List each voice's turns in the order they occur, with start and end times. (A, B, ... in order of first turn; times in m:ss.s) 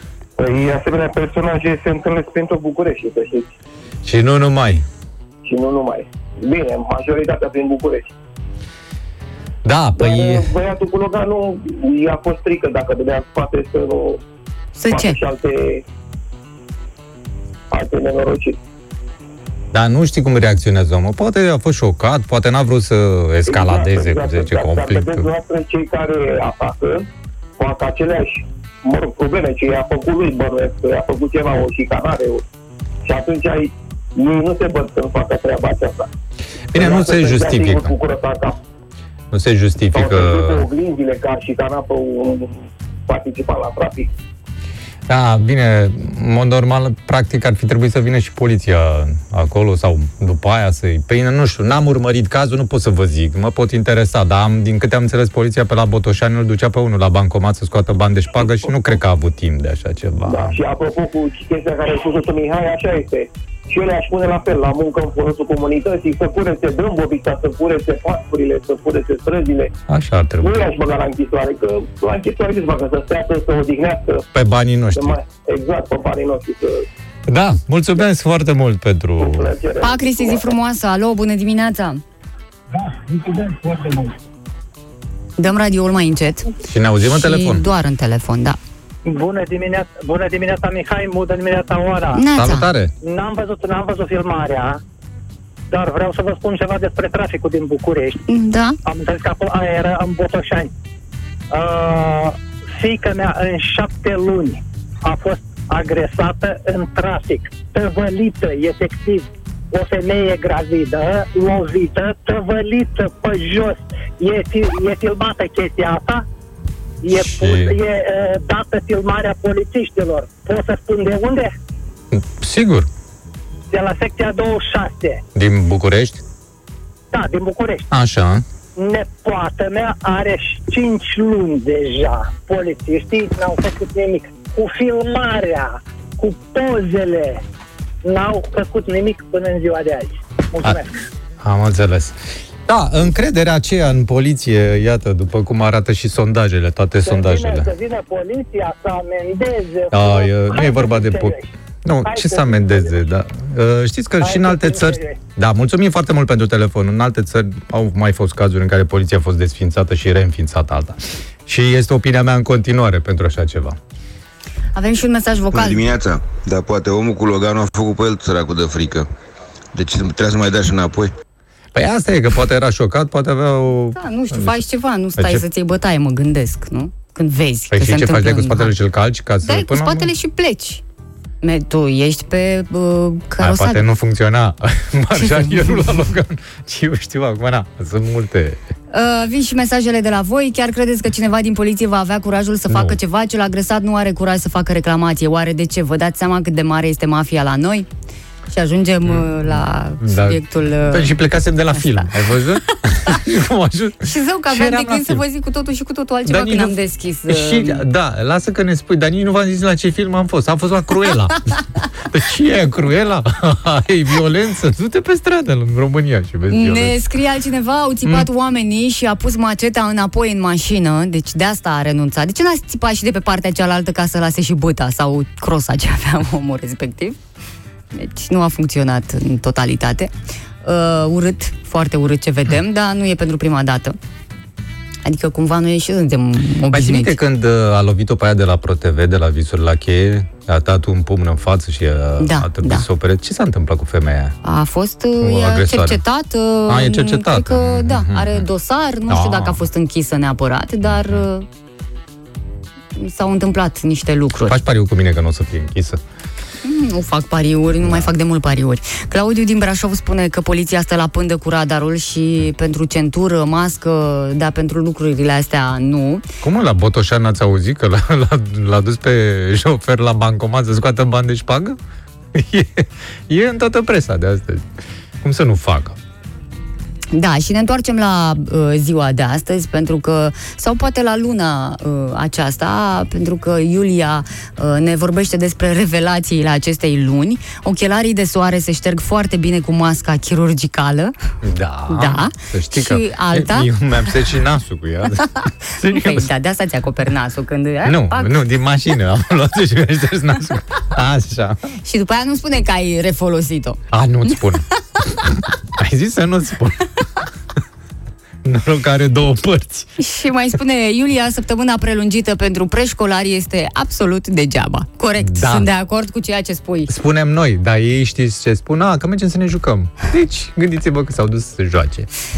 0:00.4-0:03.5 A
0:04.0-0:04.8 B
0:05.4-0:08.1 A
0:09.6-0:10.5 B
0:10.0-0:14.2 A
0:14.8-0:15.2 C
0:14.8-0:15.8 A
0:17.7-0:18.6 A
0:19.7-0:25.3 B
0:23.5-0:27.0 A
0:27.6-0:32.4 A
0:33.0-0:36.1 A
0:36.7-0:37.9 B
0:36.8-0:38.6 A
0:39.3-0:40.6 B
0:39.9-0:44.1 A
0:45.1-1:00.6 B
1:00.2-1:09.7 A
1:09.9-1:10.7 B
1:10.4-1:14.2 A
1:14.3-1:15.2 B
1:14.9-1:16.8 A
1:17.3-1:19.5 B
1:19.2-1:20.5 A
1:19.8-1:22.0 C
1:22.7-1:24.1 D
1:25.4-1:26.5 C
1:26.7-1:27.6 B
1:27.0-1:28.6 C
1:29.0-1:32.2 D
1:32.1-1:32.7 C
1:32.3-1:32.9 B
1:33.0-1:34.8 D
1:35.7-1:38.2 D
1:38.3-1:38.8 C
1:38.8-1:40.7 D
1:41.5-1:56.2 D
1:57.0-2:01.5 D
1:57.1-1:57.8 B
2:02.1-2:02.9 B
2:03.7-2:05.2 D
2:05.3-2:06.2 B
2:07.1-2:07.9 D
2:07.9-2:08.4 B
2:08.8-2:17.4 D
2:18.0-2:20.9 D
2:21.4-2:27.7 B
2:27.0-2:31.5 D
2:29.9-2:43.8 B
2:32.0-2:33.0 D
2:34.2-2:35.2 D
2:44.7-2:45.9 C
2:45.5-2:49.1 E
2:49.7-2:51.1 E
2:51.7-2:54.6 B
2:54.0-2:58.7 C
2:55.2-2:55.4 B
2:57.7-3:00.1 B
2:59.4-3:00.8 C
3:01.4-3:03.8 C
3:03.4-3:08.6 B
3:05.2-3:05.9 C
3:08.9-3:17.9 C
3:12.7-3:13.0 B
3:18.5-3:21.2 C
3:19.0-3:19.3 B
3:20.0-3:25.2 B
3:21.7-3:22.1 C
3:24.0-3:27.8 C
3:26.3-3:37.0 B
3:36.5-3:47.2 C
3:47.9-3:50.1 C
3:50.6-3:54.0 C
3:55.0-3:57.2 C
3:56.7-4:04.4 B
4:02.2-4:02.8 C
4:04.4-4:11.5 C
4:05.2-4:06.0 B
4:06.7-4:08.4 B
4:09.1-4:09.6 B
4:10.8-4:11.2 B
4:13.0-4:14.6 C
4:14.5-4:16.0 B
4:16.6-4:26.2 C
4:17.8-4:18.1 B
4:26.4-4:31.8 B
4:32.3-4:34.7 B
4:35.2-4:36.0 B
4:37.1-4:51.1 C
4:51.4-4:56.3 B
4:51.9-4:53.7 C
4:55.7-4:58.4 C
4:57.8-5:01.7 B
5:01.8-5:03.8 C
5:03.9-5:07.0 B
5:08.4-5:09.9 B
5:10.0-5:16.9 C
5:15.2-5:15.7 B
5:16.9-5:22.1 B